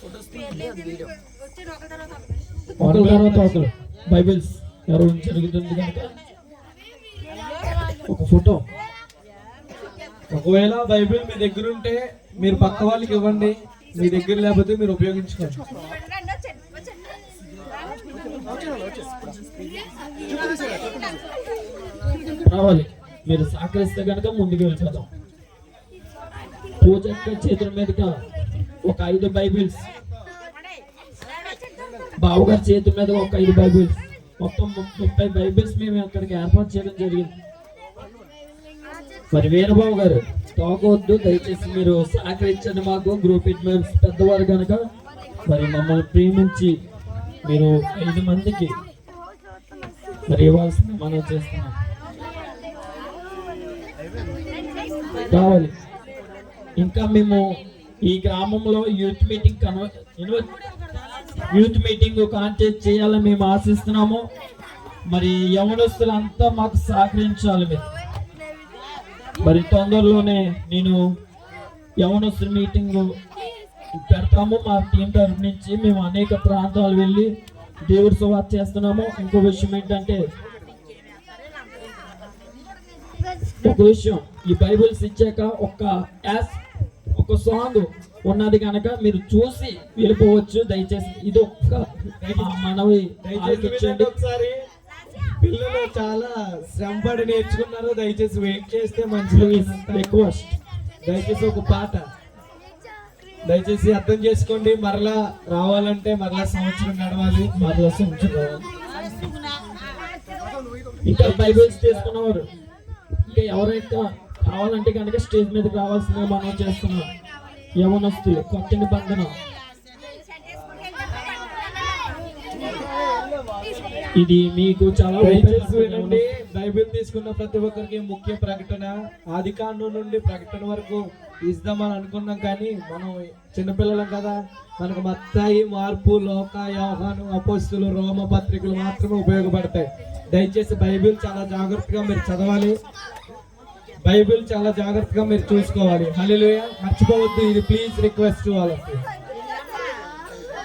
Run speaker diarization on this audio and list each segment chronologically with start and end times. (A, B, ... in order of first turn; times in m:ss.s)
0:02.8-0:03.6 A
0:02.8-0:06.1 B
0:08.1-0:08.6 B
0:10.3-0:15.6 A
0:22.5-0:25.1 B
0:26.8-0:28.2 B
0:28.8-0:29.8 B
0:32.2-0:37.3 B
0:39.3-0:44.8 B
0:45.5-0:46.8 B
0:47.4-0:48.7 B
0:50.3-0:51.7 B
0:55.3-0:55.7 B
0:56.8-0:57.4 B
0:58.0-1:00.5 B
1:01.5-1:04.3 B
1:05.1-1:07.9 B
1:09.4-1:11.0 B
1:12.0-1:13.1 B
1:14.1-1:17.3 B
1:17.9-1:20.2 B
1:23.6-1:26.6 B
1:27.2-1:34.1 B
1:32.2-1:32.6 A
1:33.2-1:34.6 A
1:35.4-1:40.2 A
1:39.3-1:40.6 B
1:41.0-1:42.0 A
1:43.5-1:47.5 A
1:47.6-1:48.7 B
1:51.1-1:52.5 B
1:51.2-1:52.1 A
1:53.3-1:57.1 B
1:57.8-1:59.3 B
2:04.2-2:06.2 B
2:05.2-2:22.8 A
2:24.1-2:29.0 A